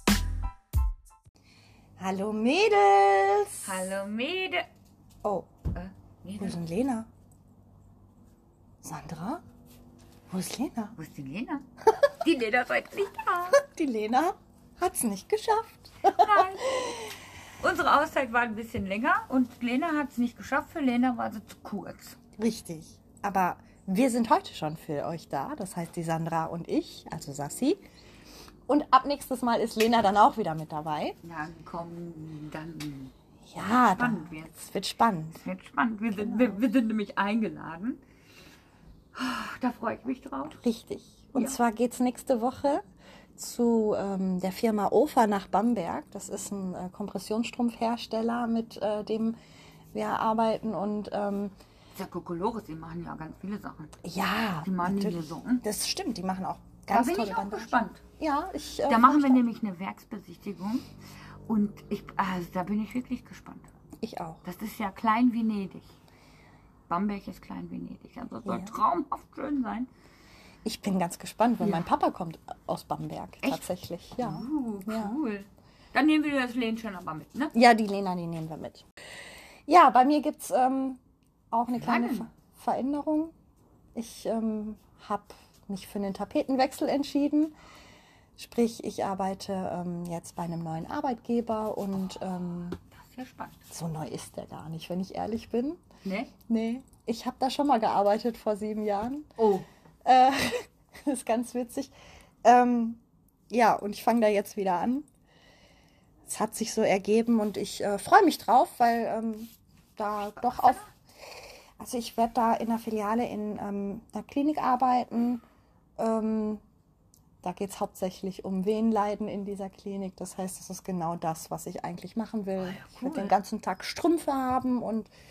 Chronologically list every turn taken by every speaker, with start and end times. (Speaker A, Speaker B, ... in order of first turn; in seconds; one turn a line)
Speaker A: 2.0-3.9
Speaker B: 3.6-4.7
Speaker A: 5.2-5.5
Speaker B: 5.7-6.6
Speaker A: 6.4-7.1
Speaker A: 8.8-9.4
Speaker A: 10.3-10.9
Speaker B: 11.0-11.7
Speaker B: 12.2-13.6
Speaker A: 13.5-16.9
Speaker B: 16.1-16.8
Speaker B: 17.6-22.2
Speaker A: 22.4-27.8
Speaker A: 28.7-31.2
Speaker B: 31.2-34.7
Speaker A: 33.5-35.4
Speaker B: 35.4-38.0
Speaker A: 36.1-36.6
Speaker B: 39.1-40.6
Speaker A: 40.6-42.8
Speaker B: 41.3-41.6
Speaker A: 43.4-49.4
Speaker A: 49.9-51.5
Speaker B: 52.0-54.0
Speaker A: 54.0-59.4
Speaker B: 54.6-55.6
Speaker B: 56.9-58.0
Speaker B: 58.9-60.9
Speaker B: 61.5-63.7
Speaker A: 64.0-64.4
Speaker B: 64.4-65.9
Speaker B: 66.9-69.9
Speaker A: 68.4-68.8
Speaker A: 70.7-75.2
Speaker B: 74.2-77.5
Speaker A: 77.5-78.9
Speaker A: 79.7-81.0
Speaker A: 81.5-83.3
Speaker B: 81.7-82.3
Speaker A: 83.9-87.5
Speaker A: 88.4-92.8
Speaker B: 92.9-93.7
Speaker A: 93.7-95.8
Speaker B: 96.0-96.3
Speaker A: 96.5-99.3
Speaker B: 99.4-99.7
Speaker A: 100.0-101.9
Speaker A: 102.4-103.0
Speaker A: 103.5-105.1
Speaker A: 106.3-110.8
Speaker B: 110.3-110.9
Speaker A: 111.8-115.4
Speaker A: 116.0-116.6
Speaker A: 117.4-125.1
Speaker B: 122.6-123.4